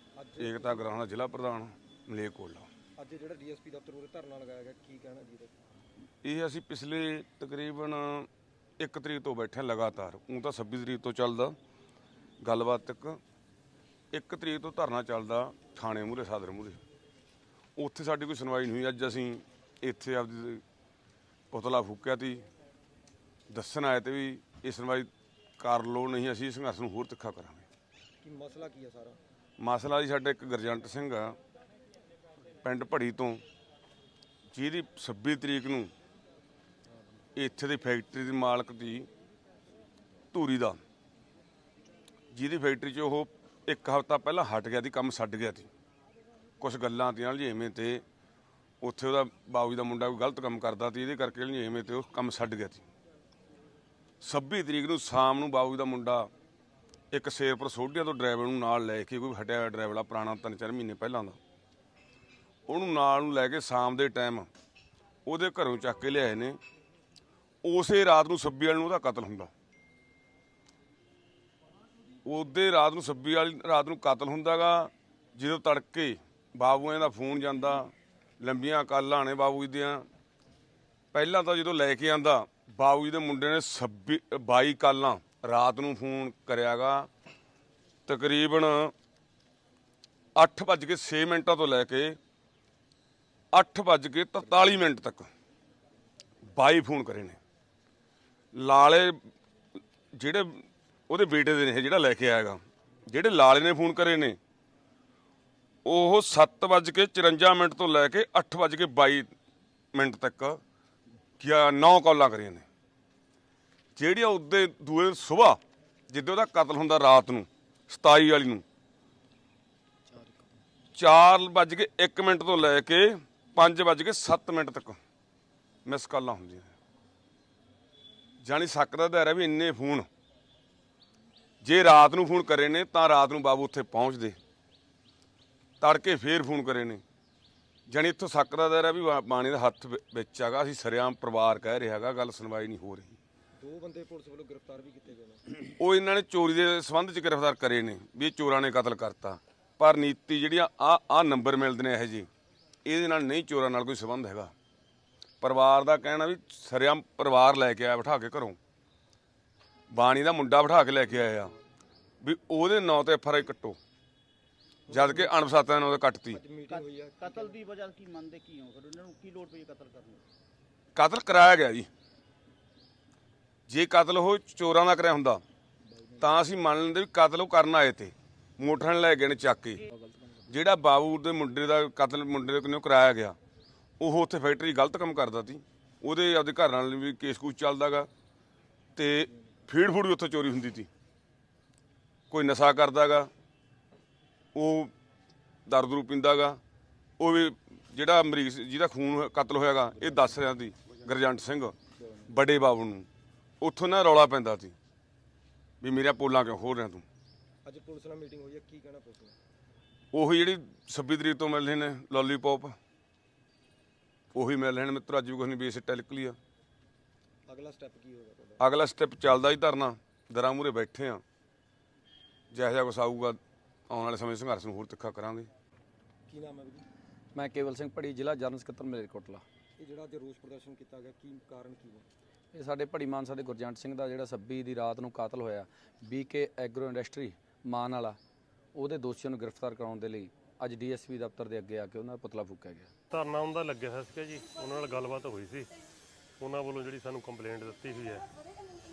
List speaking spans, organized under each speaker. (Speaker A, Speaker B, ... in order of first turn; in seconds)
Speaker A: 0.2-0.8, 3.0-5.6, 28.2-29.2, 143.6-145.4, 164.9-165.3, 166.3-167.6, 175.9-176.2, 207.6-209.3, 217.5-218.6, 226.3-226.8, 229.8-232.1
Speaker B: 0.4-2.7, 6.2-8.3, 8.8-11.5, 12.4-13.2, 14.1-16.8, 17.8-20.6, 21.5-22.4, 23.5-27.7, 29.6-31.4, 32.6-33.4, 34.5-35.9, 37.4-39.1, 40.3-40.8, 42.3-45.7, 46.6-48.0, 48.8-52.8, 54.2-56.3, 57.1-61.4, 62.7-64.5, 65.2-66.6, 67.6-69.5, 72.2-80.0, 81.1-87.1, 88.0-88.9, 90.3-92.2, 93.5-95.3, 96.5-97.4, 98.5-99.2, 100.1-104.4, 105.8-109.3, 109.9-110.6, 111.4-112.7, 114.0-115.6, 116.1-118.6, 120.9-125.0, 125.8-126.7, 128.4-130.1, 131.6-134.3, 135.8-137.0, 137.9-143.2, 145.7-152.3, 152.8-154.5, 155.4-158.6, 159.9-161.5, 162.2-163.8, 164.9-166.4, 170.9-171.9, 173.7-175.4, 176.2-179.8, 180.5-183.3, 184.0-188.1, 188.9-190.9, 192.3-193.3, 194.5-194.9, 195.7-196.6, 197.2-201.8, 202.3-203.1, 203.6-204.7, 205.8-207.1, 210.1-212.8, 214.3-216.4, 218.6-221.2, 222.5-223.4, 223.9-225.5
Speaker C: 120.1-120.4, 227.3-229.4, 232.5-238.2, 238.8-242.9
Speaker D: 166.7-170.2
Speaker E: 243.1-245.7, 246.4-248.2